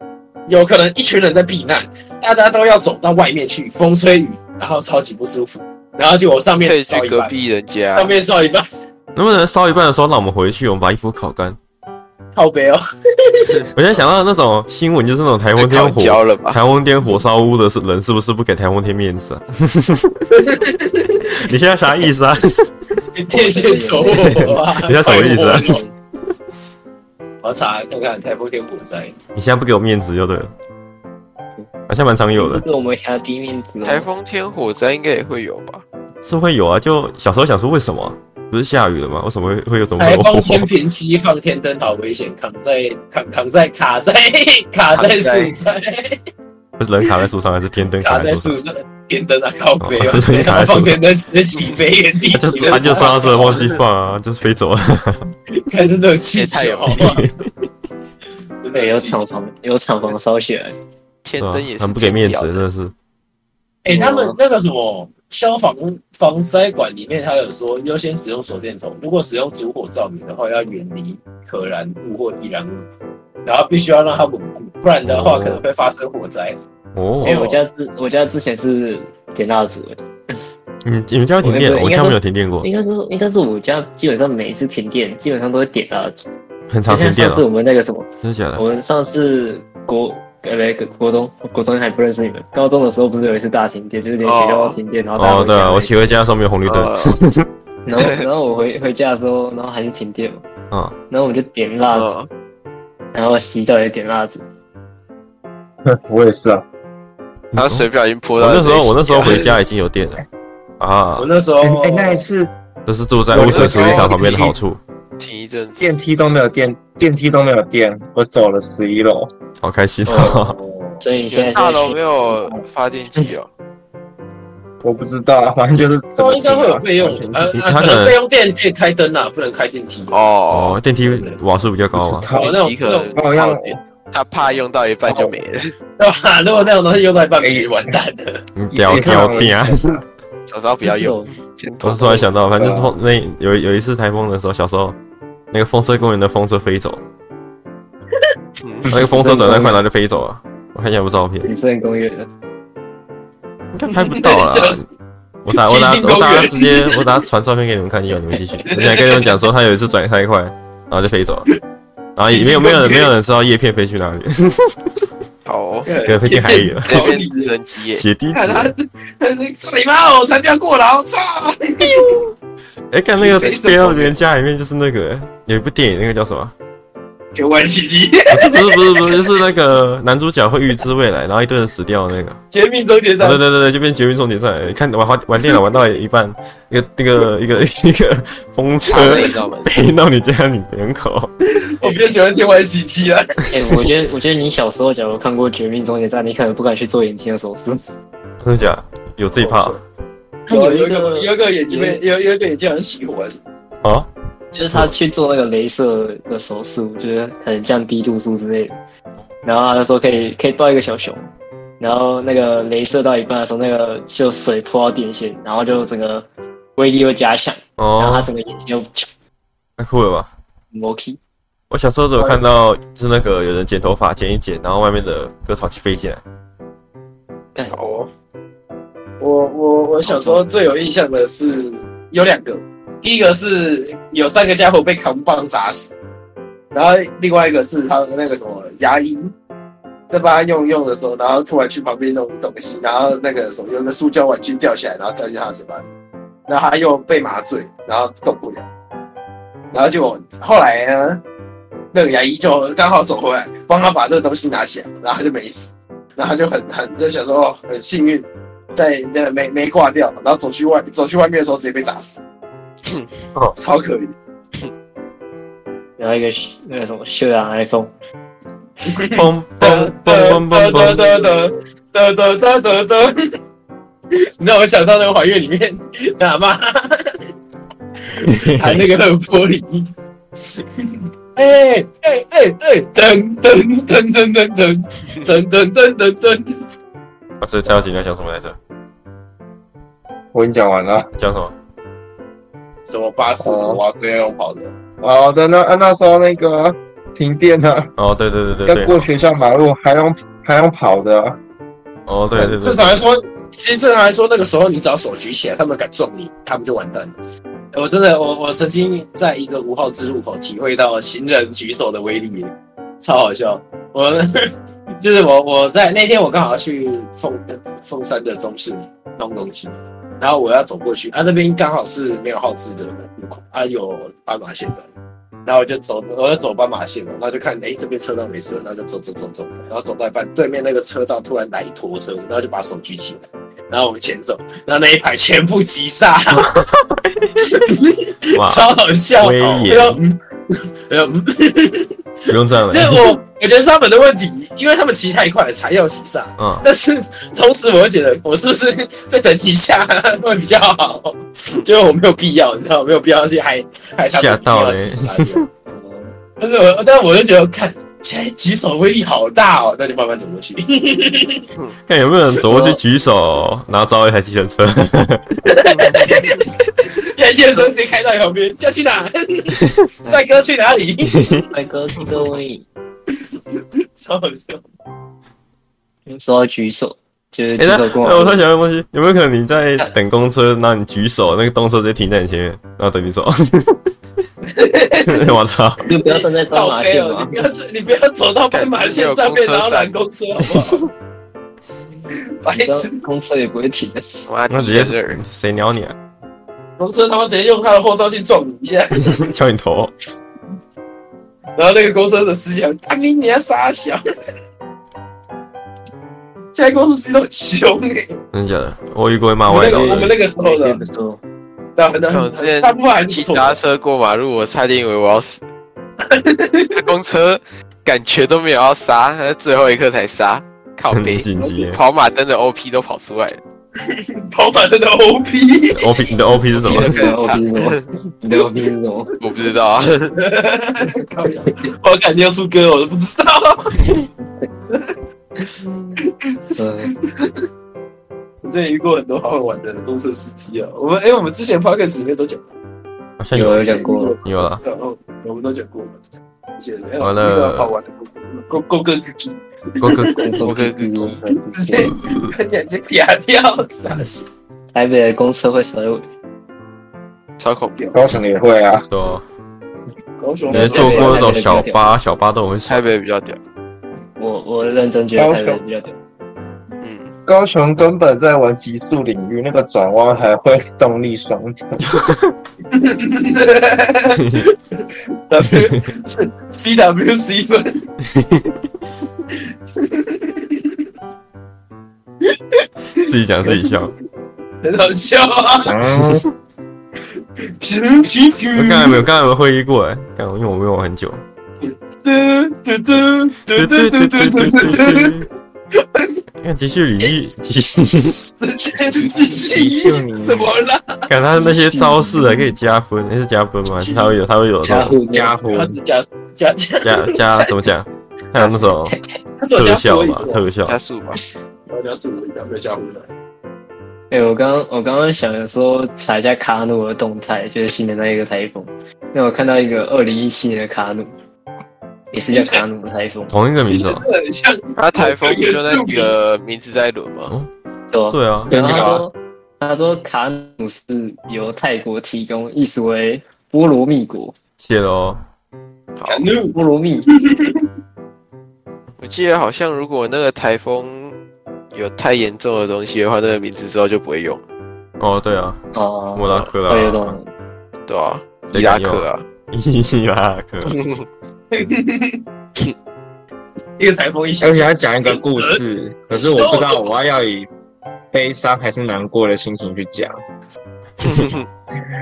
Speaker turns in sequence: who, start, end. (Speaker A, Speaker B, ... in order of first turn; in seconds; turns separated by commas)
Speaker A: 0.5-7.3, Speaker B: 6.6-8.1, Speaker A: 7.9-8.7, Speaker C: 9.1-11.6, Speaker A: 12.3-13.6, Speaker C: 13.7-20.3, Speaker B: 15.6-16.6, Speaker A: 20.3-21.3, Speaker C: 21.4-22.7, Speaker A: 23.1-25.8, Speaker D: 23.3-24.4, Speaker C: 24.2-25.8, Speaker D: 25.0-25.9, Speaker A: 27.4-29.1, Speaker C: 29.3-30.5, Speaker C: 31.9-32.6, Speaker D: 32.4-34.1, Speaker B: 33.8-35.8, Speaker C: 36.2-40.7, Speaker A: 40.0-46.2, Speaker B: 44.9-45.5, Speaker C: 46.8-48.5, Speaker A: 48.0-53.8, Speaker C: 49.8-51.0, Speaker C: 52.3-55.3, Speaker B: 52.8-53.6, Speaker A: 55.5-57.2, Speaker B: 56.3-57.1, Speaker C: 56.9-57.4, Speaker A: 58.6-59.2, Speaker D: 58.7-60.8, Speaker B: 61.2-62.6, Speaker C: 61.4-62.9, Speaker A: 63.8-72.9, Speaker D: 63.9-64.3, Speaker A: 73.4-76.6, Speaker C: 75.0-75.6, Speaker C: 76.9-77.3, Speaker A: 77.2-77.6, Speaker D: 77.2-80.4, Speaker C: 80.8-82.7, Speaker D: 81.4-86.2, Speaker C: 86.7-87.5, Speaker D: 86.9-95.9, Speaker C: 88.2-88.6, Speaker B: 94.2-94.8, Speaker C: 95.2-97.5, Speaker B: 96.7-97.2, Speaker D: 97.8-100.4, Speaker B: 98.0-98.2, Speaker D: 101.1-102.1, Speaker B: 101.9-102.3, Speaker D: 103.1-104.4, Speaker E: 105.8-106.6, Speaker C: 107.5-110.2, Speaker B: 107.5-109.5, Speaker C: 110.8-111.3, Speaker A: 111.2-112.2, Speaker E: 111.6-112.5, Speaker C: 112.8-114.8, Speaker E: 113.3-114.6, Speaker A: 113.3-114.1, Speaker B: 115.2-115.8, Speaker E: 115.8-119.3, Speaker C: 119.6-120.5, Speaker D: 120.0-120.4, Speaker A: 120.3-121.0, Speaker D: 121.0-122.6, Speaker B: 121.3-123.5, Speaker E: 124.8-127.5, Speaker A: 126.2-130.2, Speaker C: 127.6-128.2, Speaker B: 130.1-130.8, Speaker C: 130.5-132.3, Speaker A: 131.0-131.4, Speaker E: 131.9-132.6, Speaker A: 132.3-133.1, Speaker B: 132.3-135.7, Speaker E: 133.1-133.8, Speaker E: 135.1-135.3, Speaker A: 136.0-138.4, Speaker E: 137.4-137.7, Speaker C: 138.5-140.0, Speaker E: 138.7-140.0, Speaker B: 140.5-142.2, Speaker D: 140.8-141.3, Speaker C: 141.8-144.9, Speaker E: 142.6-142.9, Speaker C: 145.5-147.0, Speaker B: 148.6-149.0, Speaker C: 148.9-151.5, Speaker D: 149.0-149.8, Speaker D: 151.4-152.3, Speaker C: 153.7-154.8, Speaker A: 153.9-154.8, Speaker C: 155.4-161.5, Speaker A: 155.5-157.1, Speaker A: 158.7-159.3, Speaker C: 162.2-165.0, Speaker A: 162.2-163.1, Speaker B: 165.4-165.9, Speaker A: 165.8-167.5, Speaker C: 166.1-167.1, Speaker B: 166.8-168.0, Speaker C: 167.9-168.7, Speaker A: 168.3-172.2, Speaker C: 171.8-172.2, Speaker C: 172.9-176.5, Speaker A: 173.2-174.2, Speaker A: 177.3-179.4, Speaker C: 178.3-182.4, Speaker A: 182.5-183.4, Speaker C: 183.2-191.3, Speaker B: 188.9-189.8, Speaker A: 188.9-189.3, Speaker A: 191.8-193.5, Speaker D: 191.8-192.1, Speaker D: 193.5-197.8, Speaker C: 198.4-199.8, Speaker A: 199.3-199.8, Speaker D: 200.4-202.0, Speaker A: 200.5-203.4, Speaker C: 203.8-204.1, Speaker D: 204.5-208.7, Speaker D: 209.4-219.1, Speaker C: 217.8-218.3, Speaker C: 219.8-220.3, Speaker D: 220.7-221.2, Speaker C: 221.7-226.2, Speaker D: 227.5-227.8, Speaker B: 227.7-228.1, Speaker A: 229.2-235.9, Speaker D: 230.0-230.4, Speaker A: 236.7-239.3, Speaker A: 240.1-245.8, Speaker A: 246.5-248.6, Speaker A: 249.7-251.2, Speaker A: 251.9-262.2, Speaker A: 263.6-264.1, Speaker D: 266.0-267.9, Speaker A: 268.8-273.1, Speaker C: 269.1-271.1, Speaker A: 274.4-277.2, Speaker A: 278.1-286.6, Speaker C: 278.3-278.9, Speaker C: 287.4-288.5, Speaker E: 290.3-291.1, Speaker C: 291.2-291.5, Speaker A: 292.9-294.7, Speaker E: 293.4-293.8, Speaker E: 295.0-297.9, Speaker C: 298.0-299.1, Speaker E: 298.6-301.4, Speaker C: 302.1-303.1, Speaker A: 302.4-307.2, Speaker A: 307.7-324.9, Speaker A: 325.4-336.6, Speaker C: 336.3-337.4, Speaker A: 337.4-355.4, Speaker C: 338.4-338.6, Speaker C: 339.2-340.0, Speaker C: 342.3-343.1, Speaker C: 346.4-346.6, Speaker C: 354.1-355.4, Speaker D: 355.7-356.1, Speaker A: 356.4-361.4, Speaker C: 361.9-365.4, Speaker D: 362.5-362.8, Speaker A: 365.4-366.5, Speaker A: 367.1-371.2, Speaker C: 371.0-371.5, Speaker D: 371.5-372.6, Speaker A: 373.6-374.6, Speaker D: 376.1-378.4, Speaker C: 377.6-383.8, Speaker A: 384.4-385.3, Speaker C: 385.1-385.8, Speaker D: 385.9-387.3, Speaker A: 386.0-390.9, Speaker B: 388.5-390.0, Speaker D: 392.0-394.3, Speaker A: 392.4-393.0, Speaker B: 394.3-395.2, Speaker C: 394.5-395.9, Speaker A: 396.8-399.3, Speaker C: 399.0-399.9, Speaker A: 401.6-404.0, Speaker A: 406.5-408.2, Speaker C: 408.3-410.2, Speaker A: 409.5-410.8, Speaker D: 409.7-411.2, Speaker A: 411.8-413.6, Speaker B: 412.1-415.4, Speaker A: 416.0-416.8, Speaker B: 416.8-423.4, Speaker C: 420.9-421.8, Speaker A: 423.8-426.1, Speaker C: 425.7-427.0, Speaker B: 426.6-427.9, Speaker D: 426.7-429.1, Speaker B: 429.2-430.1, Speaker A: 430.1-434.0, Speaker A: 434.7-434.9, Speaker D: 435.6-436.0, Speaker A: 436.1-437.4, Speaker D: 436.6-436.9, Speaker A: 438.4-442.5, Speaker C: 443.2-443.7, Speaker D: 443.3-444.2, Speaker A: 443.4-450.3, Speaker C: 444.2-444.6, Speaker C: 447.0-447.7, Speaker C: 449.8-450.3, Speaker D: 450.2-451.9, Speaker B: 450.4-451.2, Speaker A: 451.5-454.2, Speaker D: 454.7-456.1, Speaker B: 457.4-457.8, Speaker E: 457.9-458.9, Speaker C: 458.9-459.2, Speaker A: 460.2-461.3, Speaker D: 460.5-461.8, Speaker C: 460.5-462.9, Speaker B: 462.7-463.4, Speaker D: 464.2-465.9, Speaker E: 465.2-465.6, Speaker B: 466.8-467.1, Speaker E: 467.3-472.0, Speaker C: 471.9-472.3, Speaker A: 472.7-477.9, Speaker C: 478.1-478.4, Speaker A: 479.3-480.8, Speaker A: 482.2-483.9, Speaker C: 483.0-483.9, Speaker A: 484.6-485.8, Speaker E: 485.6-486.2, Speaker A: 487.6-489.0, Speaker C: 488.5-491.2, Speaker A: 491.6-496.2, Speaker C: 493.5-495.3, Speaker C: 496.4-498.2, Speaker A: 498.0-501.1, Speaker E: 499.2-500.5, Speaker C: 501.1-504.9, Speaker D: 501.3-502.5, Speaker A: 503.7-504.1, Speaker D: 504.6-505.3, Speaker E: 505.1-505.8, Speaker A: 505.5-507.5, Speaker C: 506.8-508.9, Speaker A: 509.4-510.4, Speaker C: 509.6-510.8, Speaker B: 510.6-511.2, Speaker A: 511.7-513.1, Speaker D: 514.1-521.1, Speaker D: 522.1-523.3, Speaker A: 522.3-522.6, Speaker C: 523.3-524.0, Speaker A: 523.7-526.1, Speaker B: 524.8-527.3, Speaker D: 527.9-534.3, Speaker C: 528.1-528.5, Speaker E: 528.5-529.0, Speaker A: 528.5-529.0, Speaker C: 534.6-535.2, Speaker B: 536.0-536.3, Speaker A: 536.1-536.5, Speaker D: 536.5-537.1, Speaker A: 537.1-537.6, Speaker B: 539.0-541.1, Speaker B: 541.7-544.4, Speaker C: 545.0-545.6, Speaker D: 545.7-547.3, Speaker C: 546.1-547.2, Speaker B: 547.9-549.2, Speaker C: 548.5-550.8, Speaker B: 550.6-551.0, Speaker A: 551.5-552.2, Speaker A: 553.8-555.6, Speaker E: 554.4-557.5, Speaker A: 556.1-556.9, Speaker E: 558.1-560.2, Speaker B: 561.0-561.4